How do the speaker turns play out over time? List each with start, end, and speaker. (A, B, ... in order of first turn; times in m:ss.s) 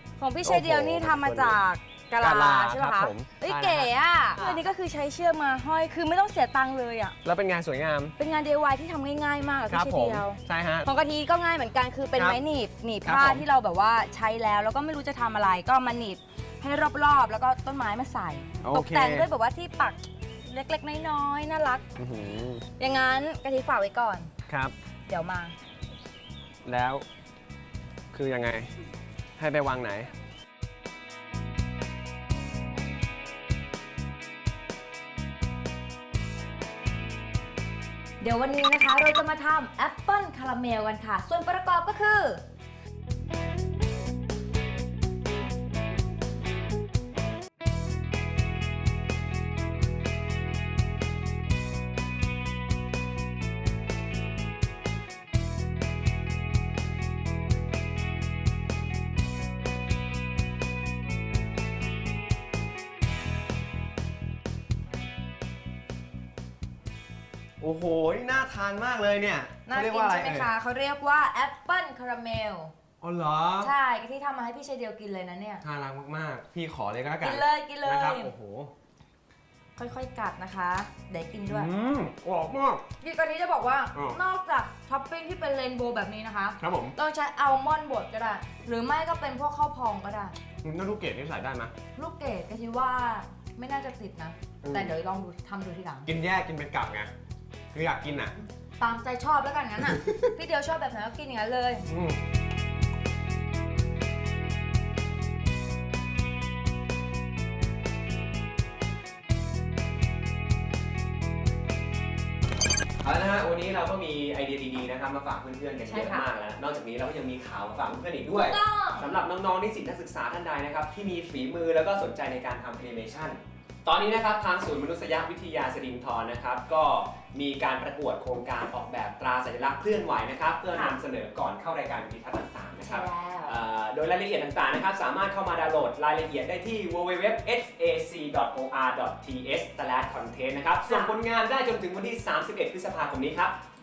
0:00.2-0:07.2 A
0:00.4-0:01.6 B
0:02.2-0:04.6 B
0:07.2-0:08.1 B
0:08.2-0:21.9 A
0:09.7-0:10.9 B
0:12.2-0:12.4 B
0:13.0-0:13.4 B
0:18.6-0:19.3 B
0:22.0-0:22.6 B
0:22.8-0:24.3 A
0:24.5-0:24.7 B
0:25.1-0:25.6 A
0:26.6-0:27.0 B
0:28.1-0:28.7 B
0:29.4-0:30.1 B
0:38.2-0:42.4 A
1:07.6-1:10.5 B
1:09.6-1:12.7 A
1:13.0-1:13.7 B
1:13.6-1:15.6 A
1:15.6-1:18.7 B
1:17.2-1:18.3 A
1:19.8-1:21.7 A
1:21.5-1:22.8 B
1:23.0-1:30.4 A
1:26.6-1:26.9 B
1:30.6-1:31.7 B
1:32.0-1:36.1 A
1:34.6-1:35.0 B
1:36.0-1:37.1 B
1:37.7-1:38.4 B
1:38.8-1:41.9 A
1:39.8-1:40.3 B
1:41.9-1:42.2 B
1:53.0-2:23.6 B
1:55.9-1:56.2 A
1:58.4-1:59.1 A
2:12.8-2:13.6 A
2:20.9-2:21.1 A